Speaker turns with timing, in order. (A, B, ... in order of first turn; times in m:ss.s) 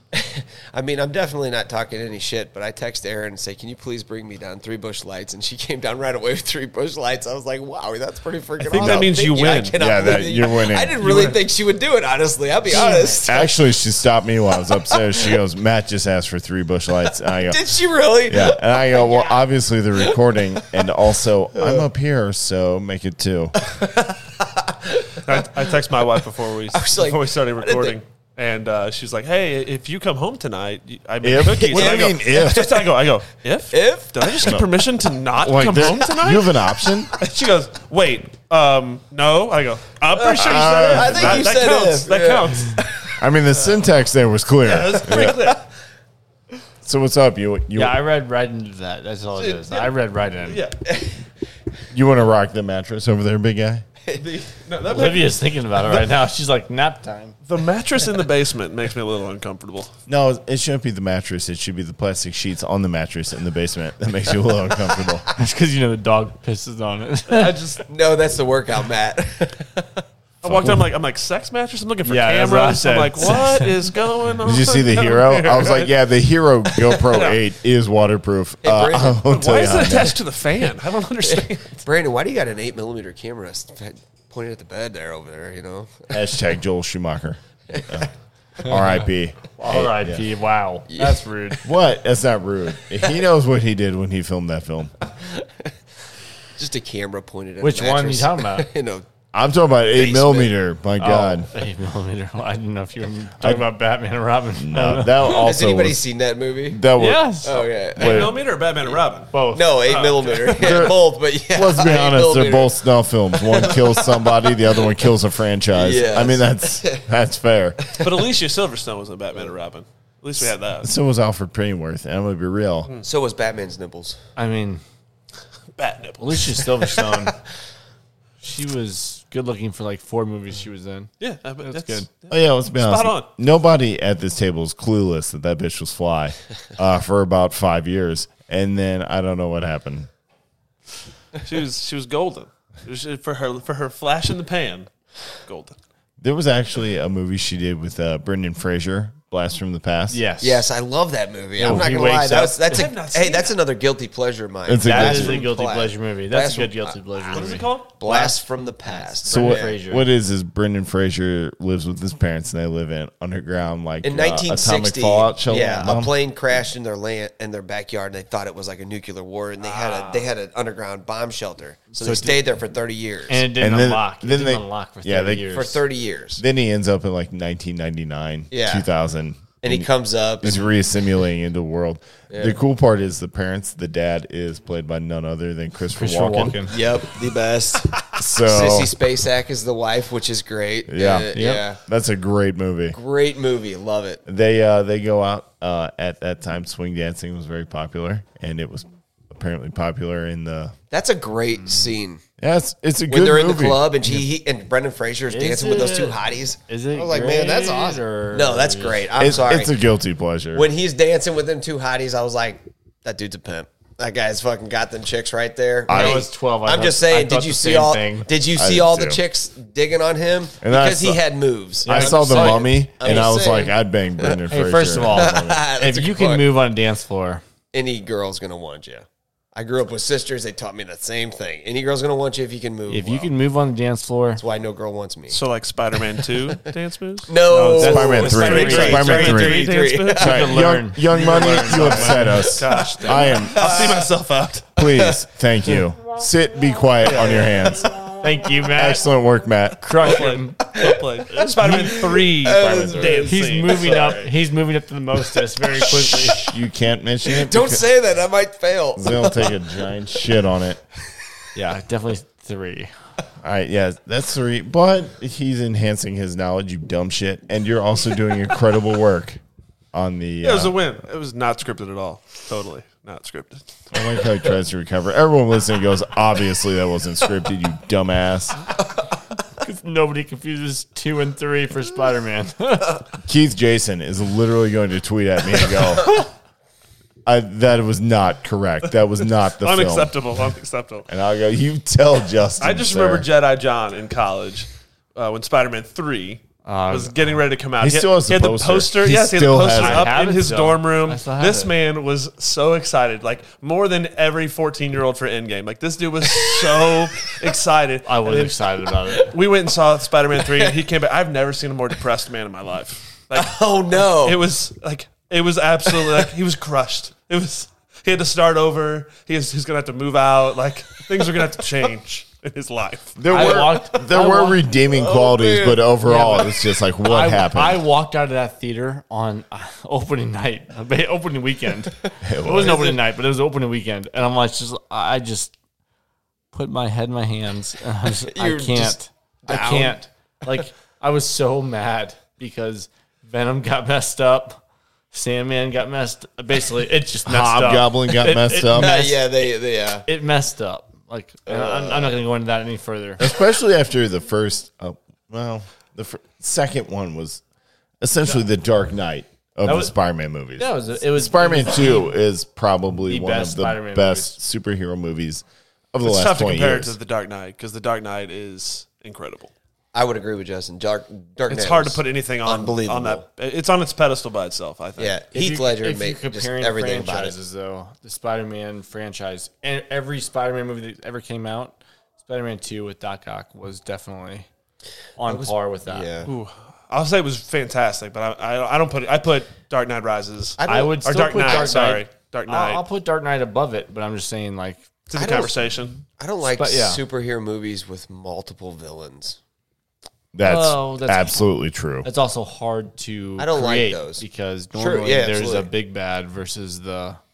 0:00.1-0:13.6 A
0:08.6-0:09.7 B
0:08.8-0:09.0 C
0:09.8-0:11.0 C
0:11.0-0:11.4 B
0:12.7-0:13.2 D
0:13.2-0:23.6 C
0:17.4-0:19.4 A
0:20.0-0:20.8 A
0:21.5-0:21.8 A
0:23.6-0:25.7 A
0:25.2-0:36.6 B
0:26.7-0:28.0 A
0:31.2-0:32.8 C
0:31.6-0:32.9 A
0:33.7-0:34.6 A
0:34.4-0:34.7 C
0:35.4-0:37.1 C
0:37.2-0:42.8 B
0:40.1-0:43.2 A
0:40.4-0:41.6 C
0:43.2-0:45.4 C
0:44.6-0:45.6 B
0:45.1-0:45.5 A
0:46.8-0:48.0 C
0:47.7-0:50.6 D
0:50.5-0:50.8 B
0:50.8-0:51.2 A
0:51.9-0:53.8 C
0:54.1-0:55.4 B
0:54.9-0:57.3 D
0:57.4-0:59.9 B
1:00.1-1:05.2 C
1:05.4-1:07.6 D
1:07.3-1:07.8 B
1:07.9-1:10.0 A
1:10.4-1:15.9 B
1:10.4-1:10.8 C
1:12.0-1:13.7 D
1:14.4-1:20.2 C
1:16.7-1:17.4 B
1:18.6-1:19.8 A
1:19.2-1:21.8 B
1:21.3-1:26.2 A
1:26.1-1:28.1 C
1:27.7-1:28.1 A
1:28.6-1:30.2 C
1:28.6-1:29.0 D
1:29.6-1:31.6 D
1:30.9-1:31.2 A
1:31.6-1:34.9 C
1:35.2-1:35.6 A
1:36.6-1:39.0 A
1:37.6-1:38.7 D
1:39.3-1:41.5 C
1:39.9-1:40.5 A
1:41.0-1:45.5 D
1:43.4-1:43.6 C
1:44.6-1:46.0 C
1:45.3-1:46.8 A
1:46.7-1:48.4 C
1:47.0-1:47.6 D
1:47.4-1:49.0 A
1:48.0-1:49.3 B
1:49.3-1:50.0 D
1:49.5-1:52.8 A
1:49.8-1:50.9 B
1:50.6-1:57.8 C
1:53.3-1:54.9 A
1:55.7-1:57.0 A
1:58.0-2:00.9 B
2:00.8-2:02.9 C
2:03.0-2:04.2 A
2:04.4-2:04.8 D
2:05.8-2:06.6 B
2:06.2-2:07.3 D
2:08.4-2:11.1 D
2:11.2-2:13.3 B
2:11.6-2:12.1 D
2:12.3-2:20.1 C
2:21.4-2:25.8 B
2:26.2-2:30.2 C
2:30.1-2:30.7 D
2:30.4-2:39.7 A
2:31.6-2:32.8 D
2:31.6-2:31.9 C
2:32.7-2:33.6 B
2:34.6-2:35.5 C
2:34.8-2:40.0 D
2:37.3-2:37.9 B
2:39.3-2:46.1 C
2:44.0-2:53.5 A
2:45.5-2:45.9 D
2:49.6-2:50.3 B
2:51.9-2:52.4 D
2:53.3-2:55.8 D
2:53.6-2:55.6 C
2:55.5-2:56.4 A
2:56.4-2:59.9 C
2:58.5-2:58.8 A
2:59.6-3:00.7 A
3:00.4-3:06.8 C
3:02.3-3:02.6 A
3:06.0-3:06.7 D
3:06.7-3:11.8 A
3:08.1-3:08.9 C
3:10.9-3:13.0 C
3:12.9-3:14.2 A
3:14.2-3:20.7 C
3:20.9-3:22.2 A
3:22.4-3:24.2 C
3:23.1-3:29.7 A
3:25.3-3:29.1 D
3:29.2-3:30.7 C
3:30.5-3:44.4 A
3:35.9-3:36.3 C
3:35.9-3:38.3 D
3:38.4-3:39.2 C
3:40.6-3:41.2 C
3:41.8-3:43.7 D
3:41.8-3:45.6 C
3:44.5-3:47.4 D
3:45.0-3:46.5 A
3:47.7-3:53.3 A
3:52.9-3:54.4 D
3:54.4-3:55.4 A
3:55.3-4:04.8 B
3:57.3-4:02.0 A
3:57.8-4:03.7 C
3:57.9-3:59.3 D
4:00.2-4:02.5 D
4:02.7-4:04.1 A
4:04.8-4:07.9 C
4:04.9-4:05.2 A
4:07.0-4:07.6 B
4:08.2-4:09.0 D
4:08.7-4:10.1 C
4:09.8-4:10.6 D
4:10.0-4:14.3 B
4:10.7-4:14.3 A
4:11.3-4:16.5 D
4:15.7-4:16.5 A
4:16.4-4:17.9 C
4:17.3-4:19.6 A
4:19.0-4:20.8 C
4:21.5-4:22.9 D
4:23.4-4:29.4 C
4:29.9-4:30.7 C
4:30.4-4:33.7 B
4:33.9-4:38.7 C
4:39.6-4:43.0 D
4:43.2-4:46.2 C
4:47.2-4:50.2 C
4:49.6-4:51.1 B
4:51.1-4:53.3 C
4:52.6-5:08.6 B
4:56.6-4:57.4 D
4:57.8-5:00.1 C
4:59.7-5:01.7 D
5:08.0-5:09.3 D
5:09.1-5:24.0 B
5:13.3-5:14.4 A
5:15.9-5:16.1 A
5:23.2-5:27.8 C
5:23.3-5:24.6 D
5:24.8-5:25.8 A
5:26.0-5:35.5 D
5:32.2-5:33.0 C
5:36.5-5:44.6 D
5:38.1-5:40.0 A
5:45.1-5:49.5 D
5:47.2-5:49.1 C
5:48.7-5:50.0 A
5:50.0-5:53.2 D
5:51.5-5:52.2 A
5:53.2-5:57.4 C
5:58.0-6:07.0 C
5:59.6-5:59.9 D
6:00.6-6:02.1 D
6:03.0-6:04.4 D
6:06.0-6:09.5 B
6:09.9-6:13.2 A
6:11.5-6:15.2 B
6:15.0-6:17.4 A
6:15.3-6:24.5 D
6:25.2-6:26.1 D
6:25.2-6:26.3 A
6:26.2-6:32.8 B
6:30.6-6:32.0 A
6:30.6-6:34.8 D
6:35.1-6:36.0 B
6:35.2-6:39.4 A
6:36.6-6:37.0 D
6:40.3-6:42.1 C
6:40.4-6:41.4 D
6:42.0-6:47.2 D
6:43.4-6:44.2 A
6:44.7-6:45.7 A